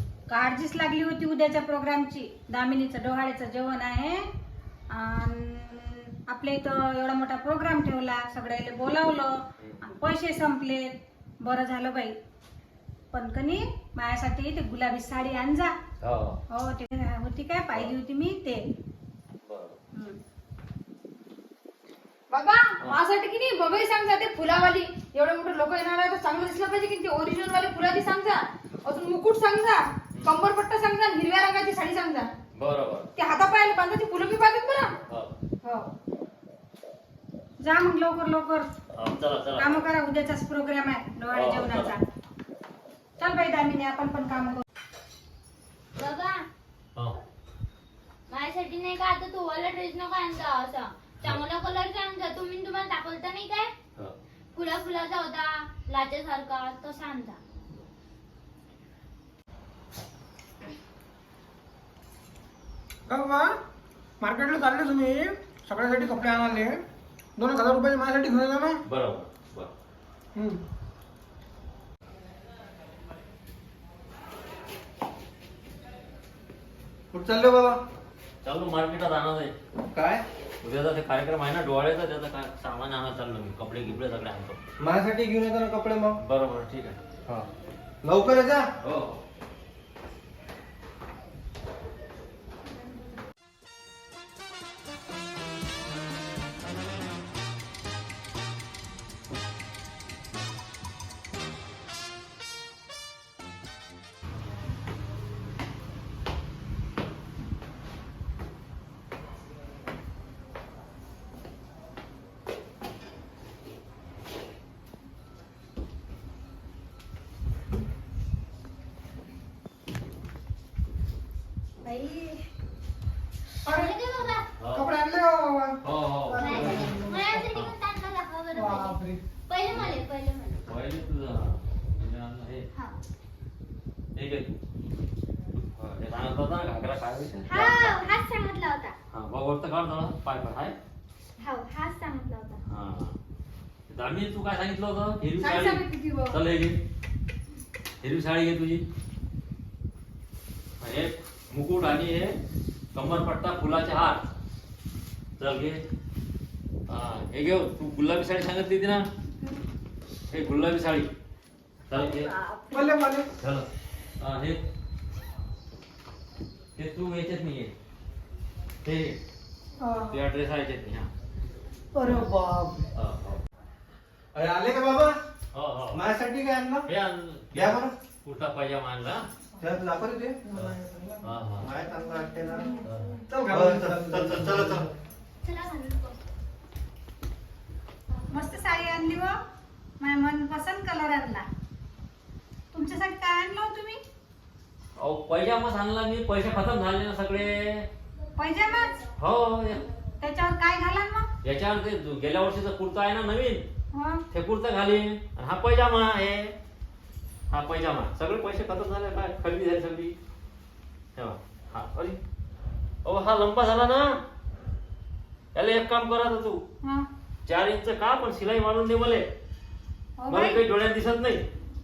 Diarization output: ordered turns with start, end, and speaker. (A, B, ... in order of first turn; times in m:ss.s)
0:00.3-0:04.2 A
0:04.9-0:12.2 A
0:13.1-0:15.7 A
0:16.0-0:16.4 B
0:16.5-0:18.6 A
0:19.4-0:19.8 B
0:22.3-0:32.3 C
0:22.9-0:23.7 D
0:24.9-0:25.8 D
0:27.7-0:28.2 D
0:32.5-0:33.1 B
0:33.2-0:34.9 C
0:35.1-0:35.4 B
0:37.6-0:38.7 A
0:38.9-0:39.8 B
0:39.6-0:42.0 A
0:41.3-0:42.0 B
0:43.2-0:44.6 A
0:45.9-0:46.4 D
0:48.3-0:53.7 D
0:54.5-0:57.4 D
1:03.1-1:03.6 E
1:04.2-1:06.8 E
1:07.4-1:08.8 E
1:08.8-1:09.7 B
1:10.3-1:10.6 E
1:17.1-1:17.8 F
1:18.4-1:19.5 B
1:19.9-1:20.2 F
1:20.6-1:24.6 B
1:24.8-1:26.2 F
1:26.2-1:27.0 B
1:28.0-1:28.7 F
1:28.8-1:29.2 B
2:01.8-2:02.4 D
2:03.6-2:03.9 E
2:03.7-2:04.5 D
2:04.6-2:04.9 B
2:04.7-2:07.5 E
2:05.8-2:07.7 B
2:06.4-2:10.6 D
2:08.5-2:09.2 E
2:09.7-2:09.9 B
2:10.6-2:12.6 B
2:12.7-2:13.0 D
2:14.1-2:14.5 B
2:15.5-2:18.1 B
2:17.5-2:18.9 D
2:19.1-2:20.7 B
2:21.4-2:22.6 D
2:22.7-2:23.2 B
2:23.9-2:26.8 B
2:25.4-2:26.4 D
2:28.0-2:28.8 B
2:30.8-2:32.3 B
2:32.9-2:34.3 B
2:35.4-2:35.8 B
2:36.9-2:39.1 B
2:40.2-2:41.1 B
2:41.9-2:42.3 B
2:42.0-2:42.9 D
2:42.7-2:43.3 E
2:43.4-2:43.7 B
2:44.2-2:44.6 B
2:46.8-2:47.7 B
2:48.8-2:49.2 B
2:50.1-2:51.1 B
2:52.0-2:52.8 E
2:53.0-2:53.4 B
2:54.3-2:55.2 F
2:55.5-2:56.0 B
2:55.9-2:56.9 F
2:56.8-2:59.2 B
2:57.5-2:57.9 F
2:59.6-3:00.4 F
3:00.4-3:01.3 E
3:00.6-3:01.7 B
3:01.6-3:02.7 F
3:03.3-3:04.8 E
3:03.4-3:04.9 F
3:05.4-3:06.2 D
3:08.3-3:09.4 A
3:10.0-3:11.5 A
3:12.7-3:14.0 A
3:15.0-3:17.9 B
3:18.4-3:19.0 A
3:19.2-3:19.8 B
3:20.2-3:21.3 A
3:21.4-3:23.6 B
3:23.9-3:24.2 A
3:24.3-3:26.5 B
3:27.5-3:30.1 B
3:31.2-3:32.2 B
3:33.0-3:34.2 B
3:35.5-3:36.6 B
3:37.4-3:39.2 B
3:40.2-3:40.6 A
3:40.3-3:41.4 B